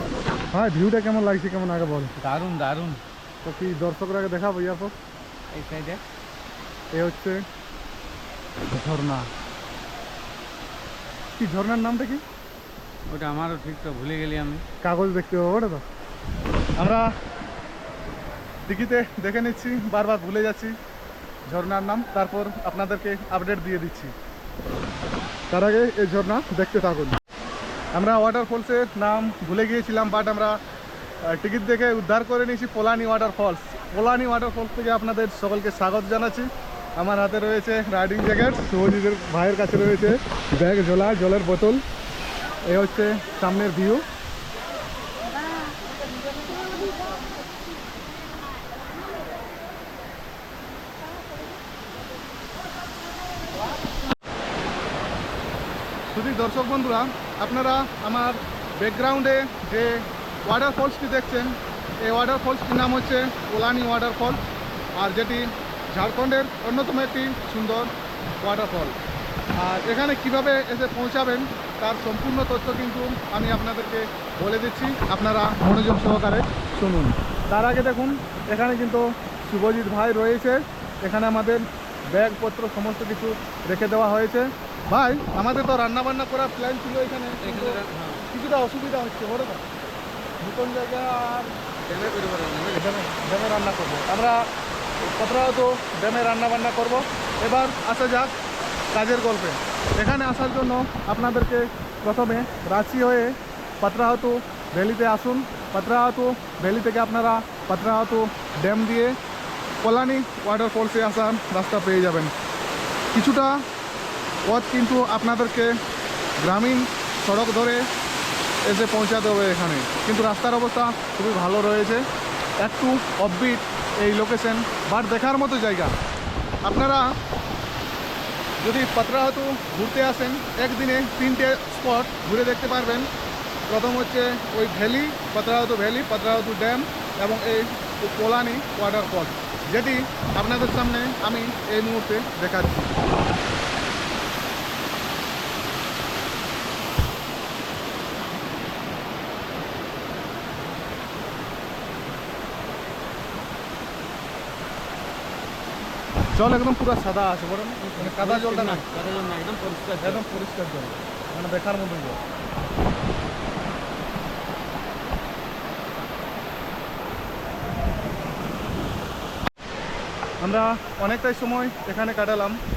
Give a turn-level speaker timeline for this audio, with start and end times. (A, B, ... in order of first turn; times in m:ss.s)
0:00.5-0:02.1 A
0:02.2-0:03.0 B
0:03.4-0:04.9 A
0:05.5-0:06.0 B
0:06.9-0:07.4 A
0:08.7-0:09.3 A
0:11.4-0:12.2 A
0:13.1-0:14.6 B
0:14.8-0:15.8 A
0:16.8-0:17.1 A
0:18.7-0:20.7 A
0:21.5-0:24.1 A
0:25.5-0:27.2 A
0:27.9-0:30.6 A
0:31.2-0:41.8 A
0:42.6-0:44.0 A
0:56.1-1:04.4 A
1:04.9-1:09.0 A
1:09.6-1:29.6 A
1:27.4-1:28.2 B
1:30.4-1:31.6 A
1:31.8-1:33.0 B
1:32.7-1:34.5 A
1:35.0-1:38.3 A
1:38.9-1:49.2 A
1:49.8-1:52.3 A
1:53.1-1:53.6 A
1:54.4-1:55.8 A
1:56.4-1:57.9 A
1:58.6-2:02.0 A
2:02.6-2:06.0 A
2:06.6-2:07.1 A
2:08.6-2:13.1 A
2:13.7-2:22.9 A
2:36.3-2:38.8 A
2:37.9-2:40.2 B
2:40.0-2:42.2 A
2:50.4-2:52.6 A